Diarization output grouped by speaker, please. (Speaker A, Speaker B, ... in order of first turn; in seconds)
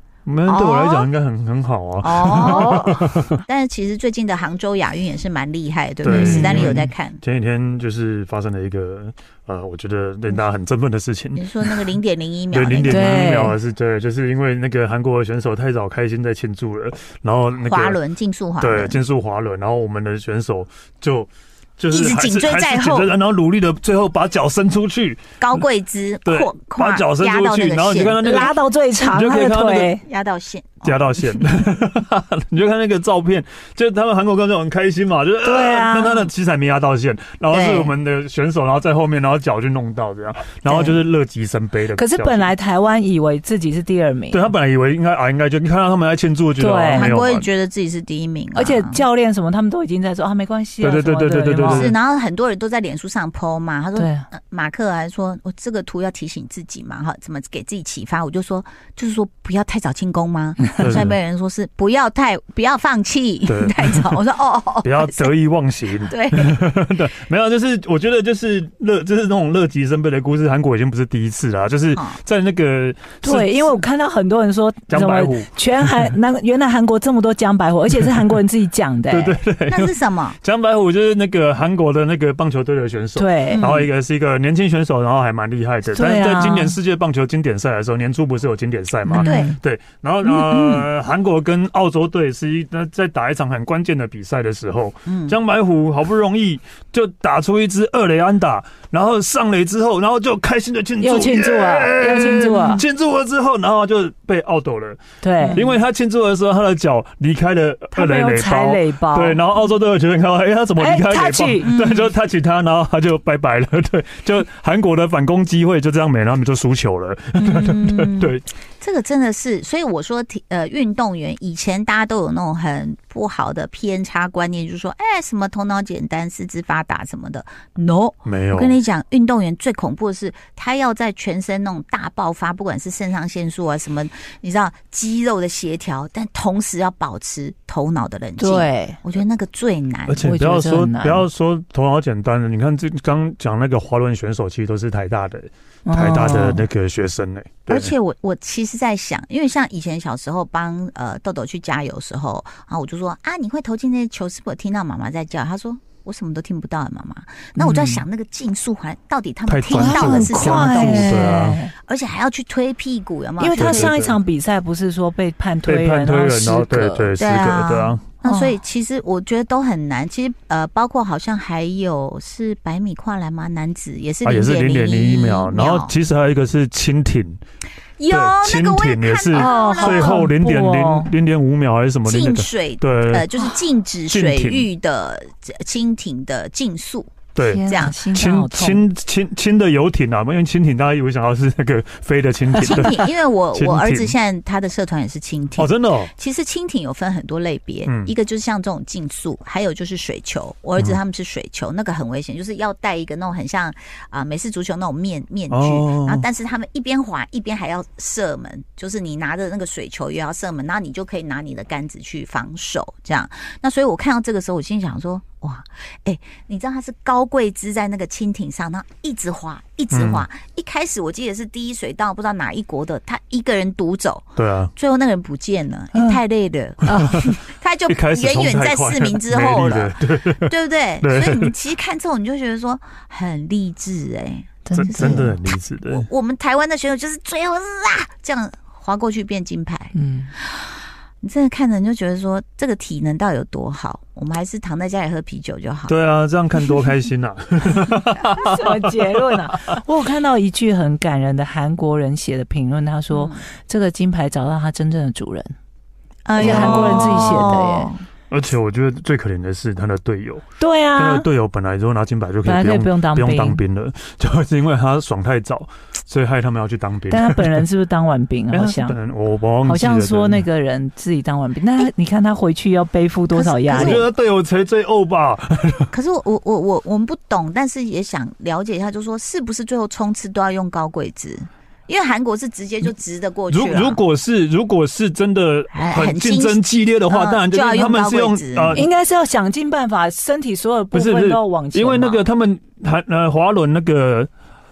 Speaker A: 0.2-3.4, 6.0-11.9, 12.5-18.0, 18.6-25.4, 26.2-28.5, 29.0-29.9, 30.8-42.5, 44.3-47.5, 50.8-51.9, 60.7-61.1, 63.5-64.2, 64.8-73.8, 74.9-75.5, 79.1-105.0, 105.5-118.5, 128.2-128.8, 140.1-147.9, 159.5-161.6, 163.5-164.2, 165.7-168.1, 174.2-177.4, 178.1-183.2, 184.1-184.7, 187.3-194.1, 195.6-196.1, 197.9-198.1, 205.5-206.2, 219.9-220.2, 224.3-224.7, 227.9-231.5, 234.7-236.1, 245.9-248.8, 256.4-257.4, 258.3-260.4, 260.9-267.6, 268.5-270.4, 273.7-275.9, 283.5-288.9, 290.9-294.3
Speaker B: 0.5-1.1, 2.0-7.2, 11.3-13.1, 17.6-19.0, 21.9-23.1, 25.4-28.5, 29.9-31.1, 37.5-37.9, 46.9-49.0, 51.7-65.3, 66.1-66.5, 79.7-80.4, 83.5-83.9, 89.2-89.6, 90.2-90.9, 95.1-95.4, 105.4-105.8, 111.6-112.1, 117.4-140.2, 147.7-163.9, 167.2-175.9, 178.0-180.3, 182.1-188.0, 192.6-235.3, 235.9-245.9, 253.1-253.4, 256.2-258.0, 273.3-274.1, 275.9-284.0, 285.7-288.8
Speaker C: 6.1-6.8, 12.9-13.6, 28.2-30.0, 35.4-36.3, 41.9-44.5, 46.6-47.2, 48.5-51.9, 54.0-54.3, 73.2-79.4, 83.2-83.7, 85.9-86.8, 89.0-89.5, 101.0-102.8, 105.2-105.7, 107.9-109.4, 110.8-111.7, 138.4-139.0, 140.2-141.3, 145.8-146.7, 157.6-158.0, 159.7-161.7, 163.4-167.2, 168.2-168.6, 179.3-181.1, 187.3-188.8, 226.8-227.2, 234.7-235.4, 239.9-240.3, 248.4-255.5, 256.4-257.9, 260.6-261.3, 262.4-263.6, 267.1-269.0, 269.6-274.0, 288.7-292.2